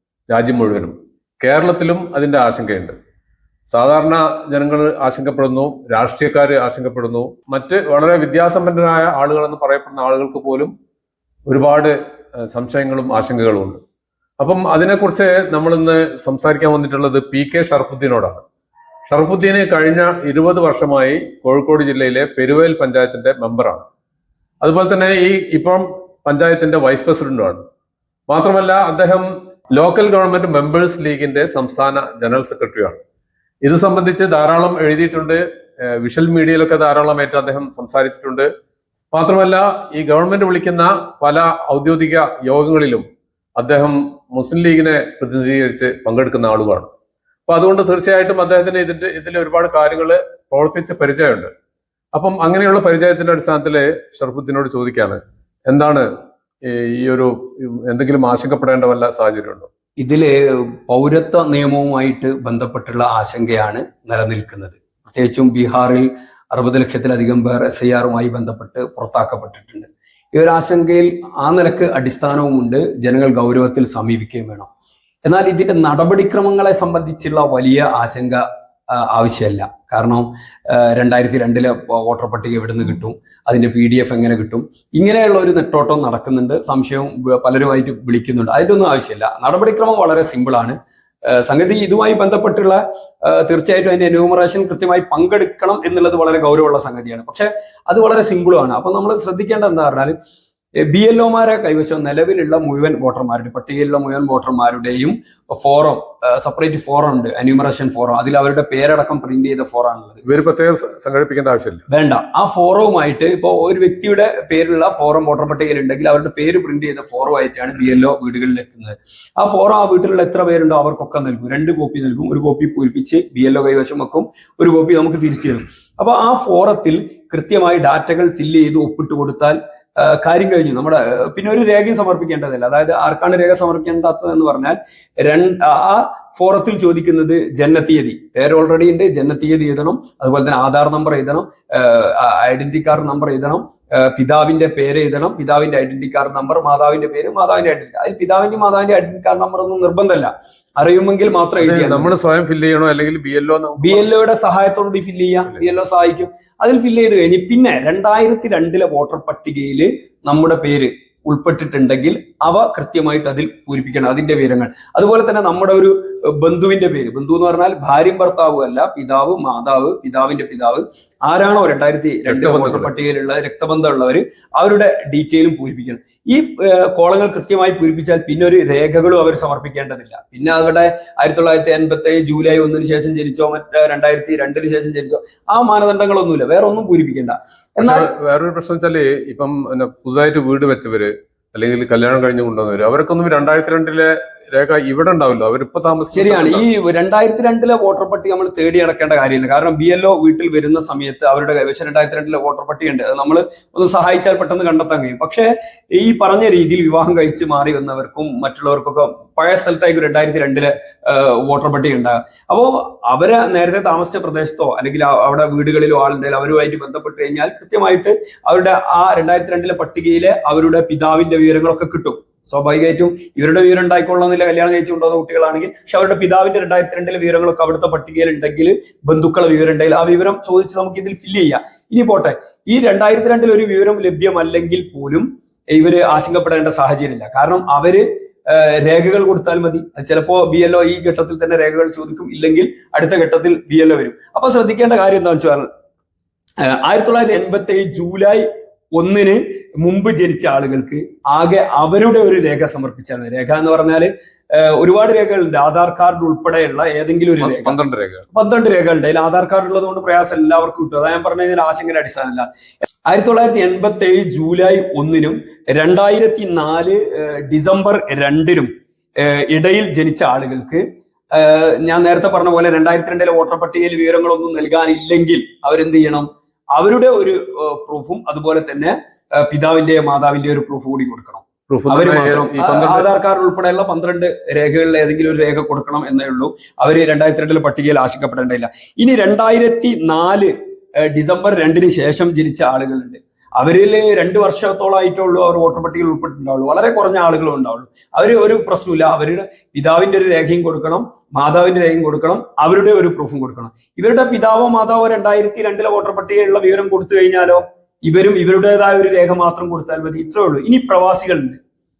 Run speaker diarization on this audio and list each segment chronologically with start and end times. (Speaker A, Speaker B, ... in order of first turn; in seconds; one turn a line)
Speaker A: 0.3-2.9
Speaker A: 3.7-10.7
Speaker A: 11.5-11.9
Speaker A: 12.5-13.8
Speaker A: 14.4-18.4
Speaker A: 19.1-23.8
Speaker A: 24.6-27.6
Speaker A: 28.3-33.0
Speaker A: 33.6-35.4
Speaker A: 36.0-38.5
Speaker A: 39.1-43.0
Speaker A: 43.6-46.9
Speaker A: 47.5-51.5
Speaker A: 52.1-56.1
Speaker A: 56.6-59.7
Speaker B: 60.0-74.7
Speaker B: 75.2-90.8
Speaker B: 91.3-100.2
Speaker B: 100.8-110.2
Speaker A: 110.2-111.8
Speaker B: 111.9-152.1
Speaker A: 151.6-154.1
Speaker B: 153.8-188.1
Speaker A: 155.5-155.7
Speaker A: 172.3-172.9
Speaker A: 187.8-196.6
Speaker B: 196.1-245.7
Speaker B: 246.6-257.8
Speaker A: 257.4-258.2
Speaker B: 258.3-262.5
Speaker B: 263.1-290.5
Speaker A: 281.7-283.1
Speaker B: 291.0-311.6